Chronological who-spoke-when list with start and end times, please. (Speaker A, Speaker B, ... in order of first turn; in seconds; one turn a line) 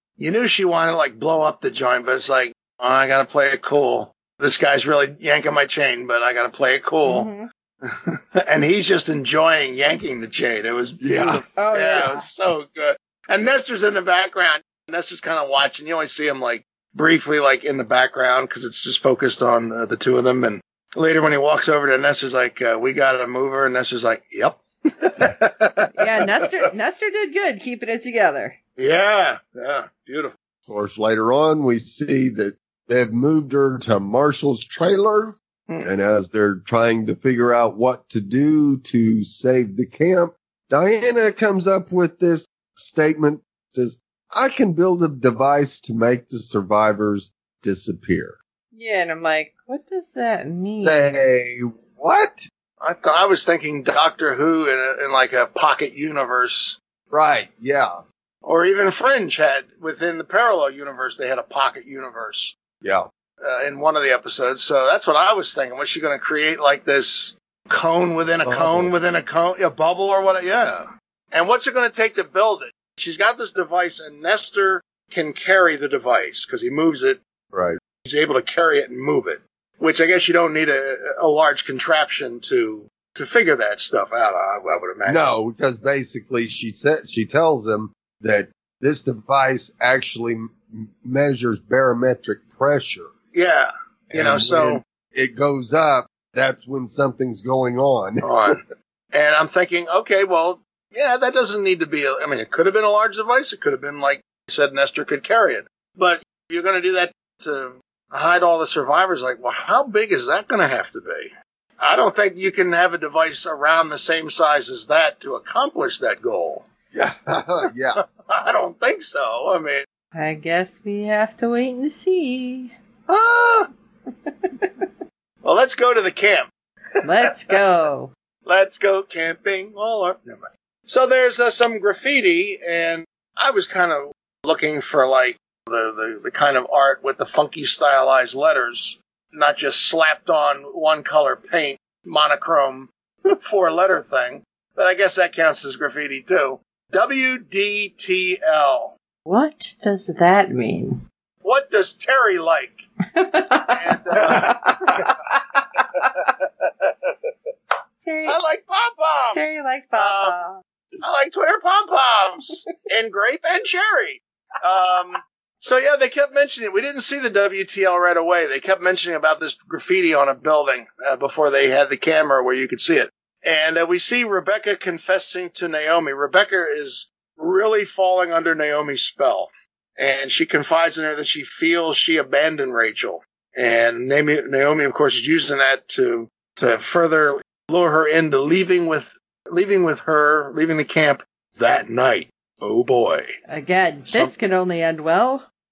Speaker A: 0.2-7.3
Speaker B: 7.0-7.5
Speaker A: 7.8-26.2
Speaker C: 11.0-11.4
Speaker B: 11.6-12.2
Speaker B: 25.9-28.6
Speaker A: 28.8-30.3
Speaker C: 30.7-48.4
Speaker B: 48.7-51.1
Speaker C: 50.8-52.5
Speaker A: 52.8-56.8
Speaker C: 57.1-58.0
Speaker A: 58.4-62.5
Speaker C: 62.8-63.1
Speaker A: 63.4-77.2
Speaker C: 68.4-68.9
Speaker C: 77.5-77.8
Speaker A: 78.0-85.3
Speaker C: 85.1-93.1
Speaker A: 93.3-94.8
Speaker C: 94.1-98.5
Speaker A: 98.2-98.6
Speaker A: 99.1-116.7
Speaker C: 116.9-118.0
Speaker A: 118.0-119.8
Speaker B: 120.1-122.7
Speaker A: 123.1-123.7
Speaker A: 125.4-126.5
Speaker B: 127.0-128.1
Speaker A: 128.4-148.9
Speaker B: 149.2-151.0
Speaker A: 151.4-152.8
Speaker B: 153.1-156.1
Speaker A: 153.7-155.1
Speaker A: 155.9-157.1
Speaker B: 158.0-158.4
Speaker A: 158.2-159.4
Speaker B: 159.3-160.6
Speaker A: 159.9-160.3
Speaker A: 161.0-193.3
Speaker B: 193.5-195.4